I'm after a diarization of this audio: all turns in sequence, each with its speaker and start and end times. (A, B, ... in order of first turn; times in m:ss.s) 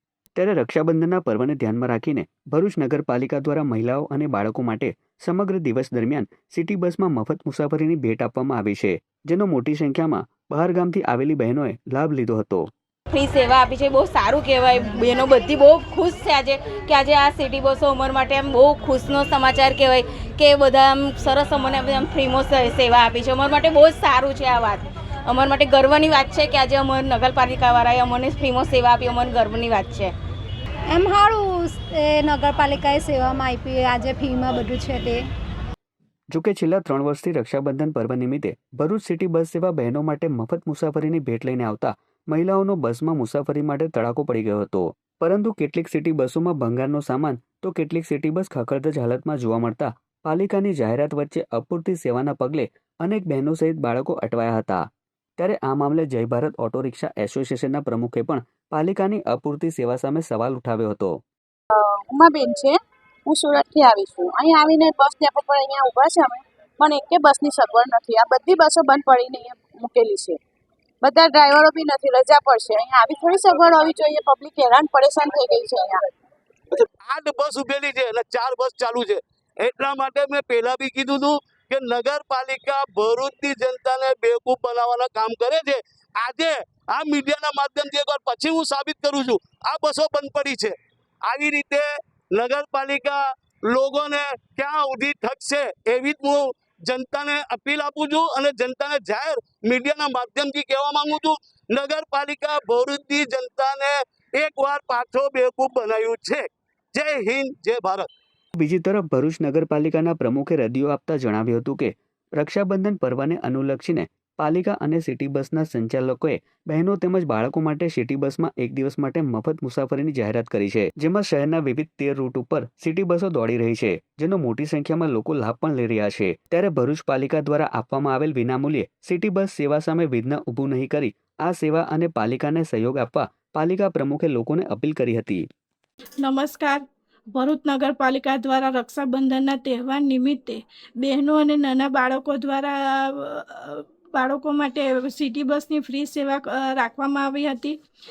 0:00.4-0:12.7 A
0:13.1-0:30.1 B
0:30.9-0:35.3 C
0:36.3-0:54.9 A
0:55.4-1:01.2 A
1:01.7-1:10.4 D
1:11.0-1:16.0 D
1:17.0-1:30.7 E
1:31.3-1:48.1 E
1:48.6-2:15.4 A
2:16.2-2:16.8 F
2:17.3-2:27.8 F